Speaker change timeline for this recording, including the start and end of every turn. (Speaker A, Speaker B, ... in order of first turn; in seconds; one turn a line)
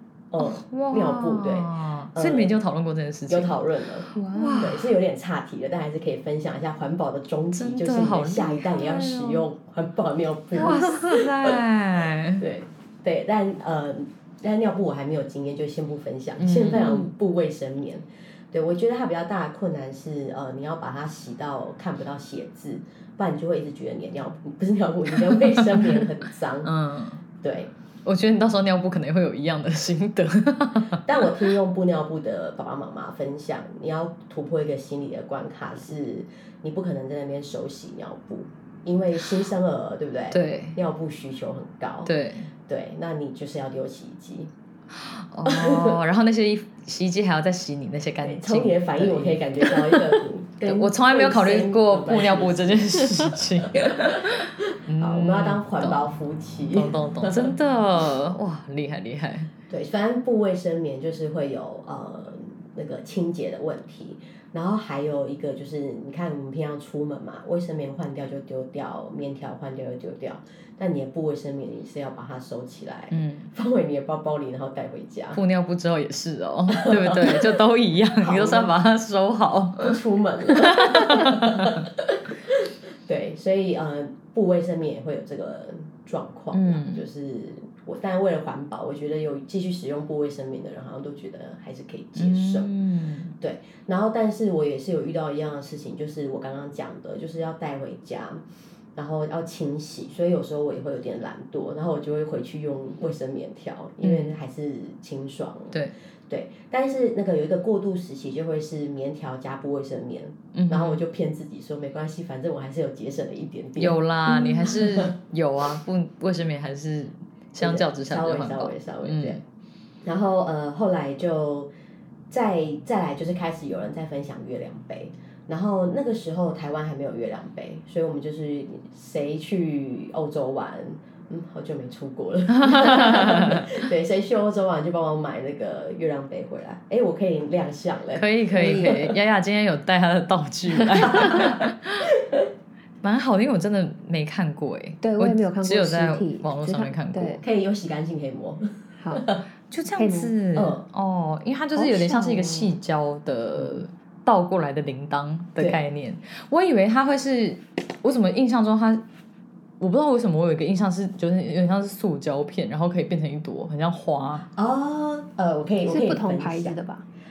Speaker A: 0.3-2.6
Speaker B: 0.4-3.6
Speaker A: 3.3-11.6
Speaker C: 4.2-4.7
Speaker B: 4.3-4.9
Speaker B: 7.5-9.5
Speaker B: 10.5-12.5
Speaker A: 12.4-26.7
Speaker B: 16.4-17.0
Speaker C: 16.8-17.1
Speaker B: 25.3-26.1
Speaker B: 26.6-27.2
Speaker A: 27.4-27.7
Speaker B: 28.1-31.1
Speaker A: 31.0-42.1
Speaker B: 40.3-40.8
Speaker B: 42.1-42.5
Speaker A: 42.6-44.5
Speaker B: 44.9-56.1
Speaker A: 45.5-46.0
Speaker A: 48.2-57.5
Speaker B: 56.7-59.5
Speaker A: 59.7-75.4
Speaker B: 73.1-73.5
Speaker B: 75.3-81.9
Speaker A: 76.7-77.6
Speaker A: 78.2-78.7
Speaker A: 79.8-92.7
Speaker B: 86.5-87.0
Speaker B: 92.2-93.3
Speaker A: 93.4-98.4
Speaker A: 99.0-115.2
Speaker B: 104.0-104.3
Speaker B: 110.5-111.0
Speaker B: 113.8-119.4
Speaker A: 117.6-119.4
Speaker A: 120.0-121.7
Speaker A: 122.3-139.2
Speaker B: 132.6-133.7
Speaker B: 138.2-142.1
Speaker C: 138.6-138.9
Speaker A: 141.0-141.6
Speaker A: 142.2-142.5
Speaker B: 143.0-147.4
Speaker C: 145.0-147.4
Speaker A: 147.4-149.4
Speaker C: 149.0-149.3
Speaker B: 149.7-159.0
Speaker C: 149.9-150.3
Speaker A: 150.6-150.8
Speaker C: 151.8-152.8
Speaker B: 159.8-164.5
Speaker A: 164.6-166.8
Speaker C: 165.9-167.1